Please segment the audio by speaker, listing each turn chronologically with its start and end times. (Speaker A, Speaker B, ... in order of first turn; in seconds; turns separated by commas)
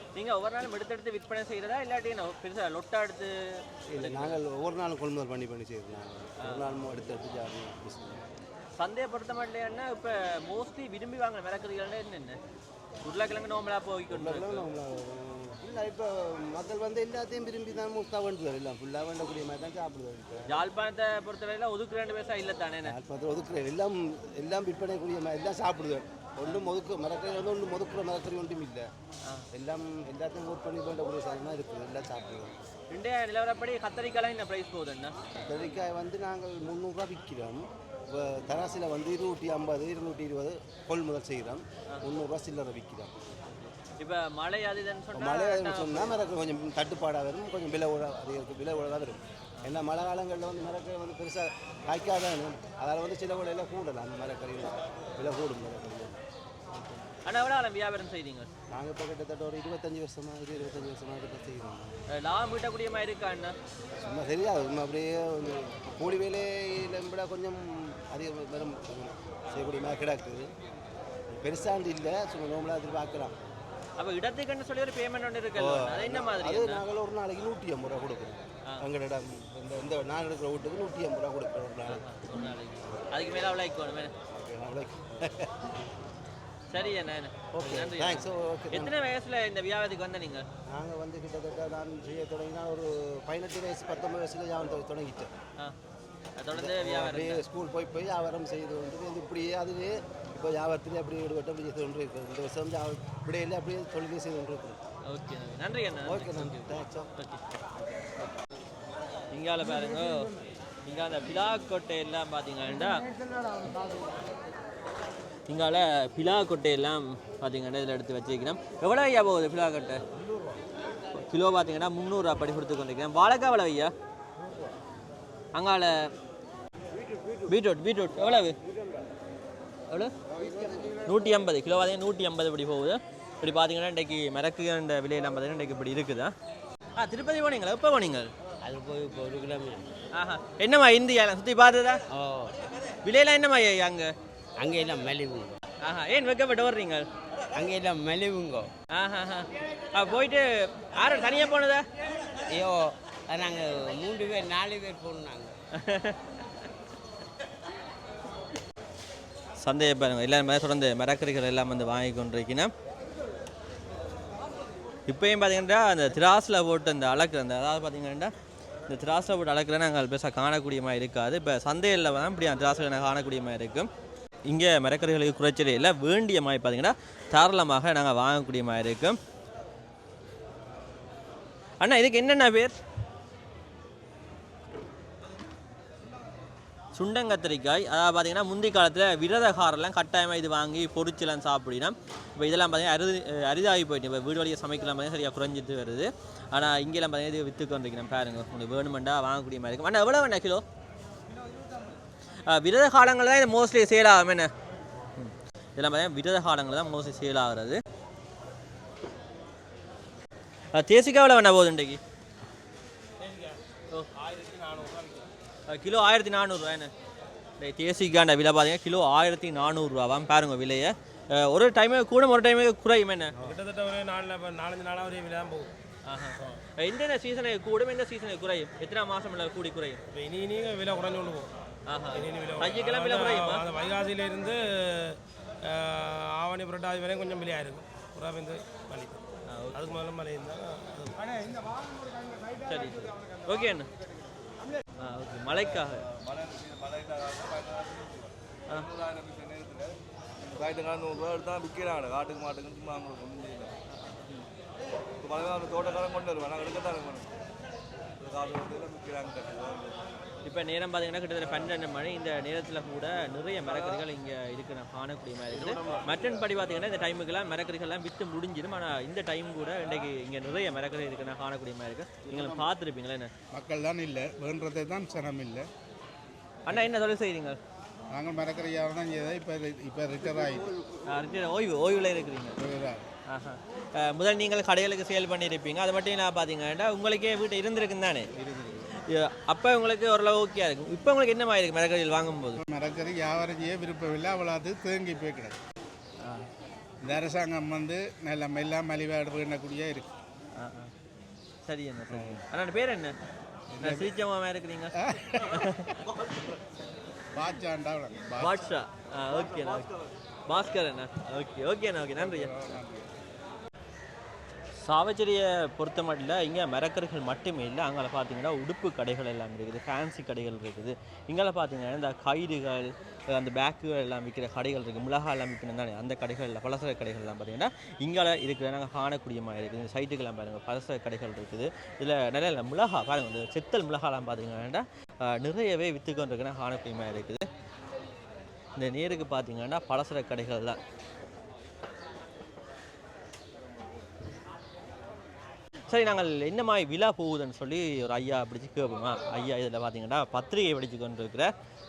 Speaker A: 0.1-4.4, Speaker B: 3.9-8.3, Speaker A: 8.8-12.4, Speaker A: 13.0-14.7, Speaker B: 14.1-20.4, Speaker A: 20.5-22.9, Speaker B: 22.9-28.9, Speaker B: 29.5-32.5, Speaker A: 32.9-35.1, Speaker B: 35.4-43.4, Speaker A: 44.0-46.2, Speaker B: 45.1-56.2, Speaker A: 57.1-58.5, Speaker B: 58.7-62.0, Speaker A: 62.1-63.5, Speaker B: 64.0-70.5, Speaker B: 71.3-73.3, Speaker A: 74.0-76.8, Speaker B: 75.6-83.0, Speaker A: 81.9-84.1, Speaker B: 84.3-85.8, Speaker A: 86.7-90.5, Speaker B: 87.5-88.9, Speaker B: 90.7-95.3, Speaker A: 96.4-97.4, Speaker B: 96.5-104.8, Speaker A: 105.1-107.4, Speaker B: 106.1-107.1, Speaker A: 109.3-110.3, Speaker A: 110.8-113.0, Speaker A: 115.5-120.0, Speaker A: 121.2-123.9, Speaker A: 125.5-125.9, Speaker A: 127.5-128.6, Speaker A: 131.1-136.3, Speaker A: 137.0-138.3, Speaker C: 138.6-139.9, Speaker A: 140.1-142.0, Speaker C: 142.1-142.6, Speaker A: 143.1-144.1, Speaker C: 144.6-145.6, Speaker A: 145.8-147.1, Speaker C: 147.5-148.7, Speaker A: 148.9-151.9, Speaker C: 152.5-155.5, Speaker A: 155.8-156.7, Speaker A: 159.6-162.7, Speaker A: 165.1-168.3, Speaker A: 168.9-173.9, Speaker A: 174.5-179.2, Speaker A: 181.8-182.8, Speaker A: 187.0-200.6, Speaker A: 202.5-204.5, Speaker A: 205.2-207.8, Speaker A: 210.7-212.0, Speaker D: 213.2-213.6, Speaker D: 214.2-215.3, Speaker A: 215.7-216.9, Speaker A: 217.6-223.4, Speaker D: 223.4-225.8, Speaker A: 226.1-230.0, Speaker D: 230.1-231.5, Speaker A: 231.9-233.6, Speaker D: 232.1-241.3, Speaker A: 239.5-239.9, Speaker A: 242.7-243.9, Speaker A: 245.0-246.1, Speaker E: 245.5-253.7, Speaker A: 253.9-254.5, Speaker E: 255.2-257.3, Speaker E: 258.2-260.0, Speaker A: 260.4-273.3, Speaker E: 263.8-264.0, Speaker E: 265.5-266.3, Speaker F: 273.5-275.7, Speaker A: 276.7-277.6, Speaker F: 278.1-280.7, Speaker A: 281.1-282.6, Speaker F: 282.6-283.1, Speaker A: 283.3-288.3, Speaker F: 288.4-288.8, Speaker A: 289.1-292.6, Speaker F: 292.6-295.6, Speaker A: 296.2-296.5, Speaker F: 297.0-300.1, Speaker A: 300.6-300.9, Speaker A: 301.7-303.1, Speaker F: 302.1-302.4, Speaker F: 303.7-304.1, Speaker A: 303.8-306.0, Speaker F: 305.0-305.7, Speaker F: 307.3-308.7, Speaker A: 308.4-309.9, Speaker E: 309.5-309.8, Speaker A: 310.5-312.8, Speaker F: 312.2-313.1, Speaker A: 314.8-337.4, Speaker A: 338.8-340.8, Speaker A: 345.9-351.5